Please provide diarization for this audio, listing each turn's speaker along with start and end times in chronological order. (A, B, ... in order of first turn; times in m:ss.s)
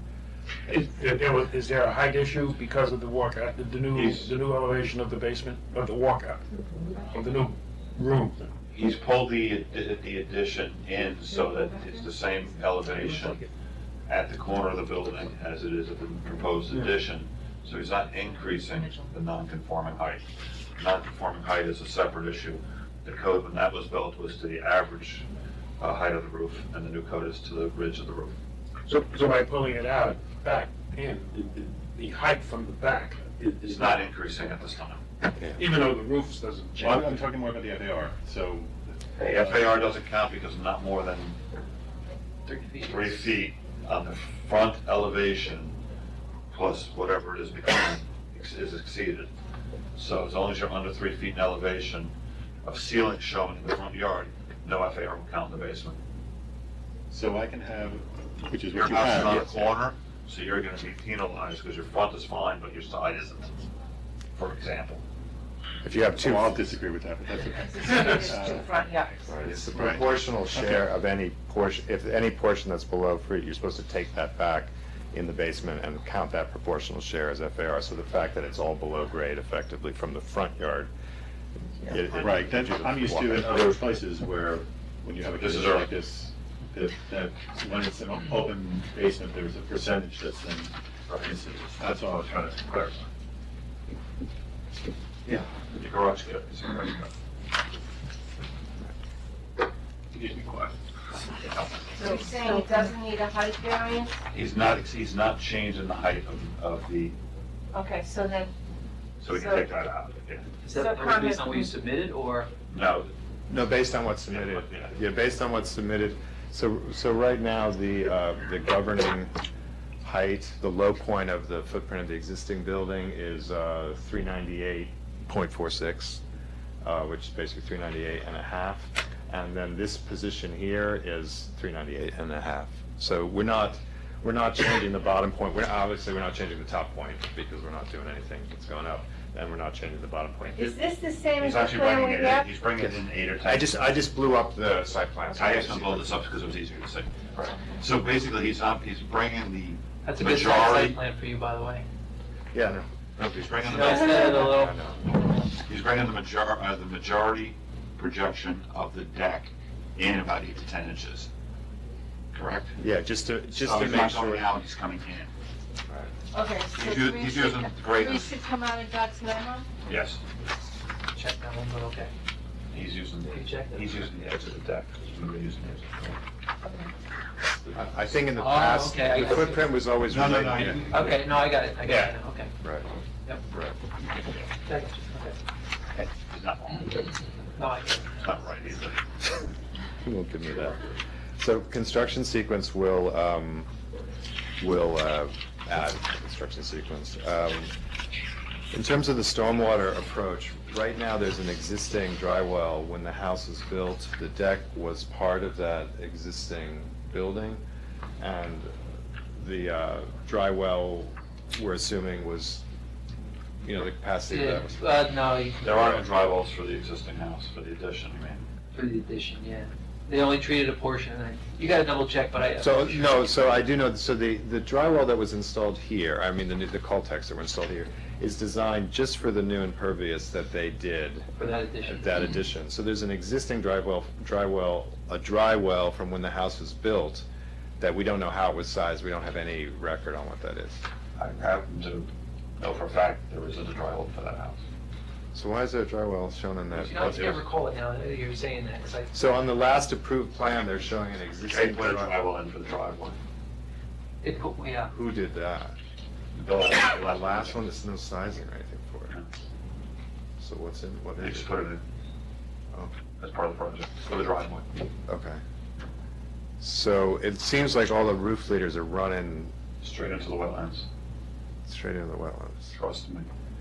0:00.7-0:06.4 A
0:07.1-0:08.5 A
0:08.7-0:13.4 B
0:14.1-0:20.2 B
0:20.8-0:25.3 B
0:25.8-0:28.4 B
0:28.9-0:33.9 A
0:33.6-0:35.0 B
0:35.6-0:37.3 A
0:36.8-0:39.8 C
0:39.2-0:41.4 B
0:42.5-0:43.4 D
0:42.8-0:45.8 B
0:46.5-0:49.3 B
0:50.0-0:52.1 B
0:52.6-0:56.0 B
0:57.1-0:59.5 C
0:58.8-1:03.5 B
1:04.3-1:05.0 B
1:05.8-1:06.6 E
1:06.1-1:08.8 C
1:07.9-1:09.1 F
1:09.3-1:20.9 E
1:09.4-1:10.0 B
1:09.8-1:10.0 C
1:10.5-1:10.8 C
1:21.9-1:23.8 E
1:22.2-1:33.1 C
1:25.4-1:25.9 B
1:31.1-1:31.4 B
1:35.3-1:37.1 B
1:40.2-1:40.6 C
1:42.0-1:44.2 F
1:44.3-1:47.2 B
1:47.7-1:48.5 F
1:49.2-1:50.5 B
1:49.3-1:49.7 F
1:50.6-1:52.5 D
1:50.8-1:51.7 F
1:52.7-1:53.1 B
1:53.5-1:59.3 E
1:54.3-1:55.0 B
2:00.0-2:06.2 E
2:06.8-2:20.7 E
2:20.6-2:22.5 F
2:21.4-2:24.0 B
2:22.8-2:26.2 E
2:25.4-2:31.0 B
2:30.0-2:31.9 D
2:32.5-2:32.9 E
2:33.2-2:34.5 B
2:33.6-2:34.8 D
2:33.7-2:35.0 E
2:35.7-2:41.3 B
2:42.3-2:42.8 B
2:42.8-2:44.5 E
2:43.5-2:45.3 B
2:46.3-2:49.7 F
2:46.7-2:48.3 B
2:49.9-2:50.2 B
2:51.1-2:52.1 D
2:52.7-2:56.2 B
2:53.2-2:54.0 D
2:57.7-3:00.8 E
2:58.4-2:59.8 D
3:00.1-3:01.3 B
3:00.5-3:00.8 C
3:00.9-3:02.5 D
3:02.6-3:02.9 E
3:03.5-3:03.8 E
3:04.6-3:05.4 D
3:06.0-3:07.1 B
3:07.6-3:08.3 D
3:08.2-3:09.0 B
3:10.0-3:10.8 E
3:11.4-3:13.7 E
3:14.6-3:17.7 E
3:18.7-3:27.6 E
3:28.2-3:28.7 E
3:29.4-3:32.6 E
3:33.6-3:34.8 E
3:34.3-3:36.0 D
3:35.6-3:38.4 B
3:38.7-3:43.6 D
3:42.6-3:51.3 E
3:51.4-3:52.2 D
3:51.8-3:57.3 E
3:57.8-4:00.8 E
4:01.2-4:04.6 B
4:05.3-4:07.3 E
4:06.7-4:07.4 B
4:06.9-4:09.3 D
4:09.1-4:12.2 E
4:11.5-4:13.2 B
4:14.2-4:14.9 D
4:14.9-4:15.8 E
4:16.4-4:17.6 B
4:16.6-4:19.2 E
4:20.4-4:21.5 E
4:21.2-4:21.8 B
4:23.2-4:24.7 B
4:25.1-4:25.4 E
4:26.6-4:29.5 E
4:29.8-4:30.9 B
4:31.7-4:32.8 E
4:32.7-4:33.3 B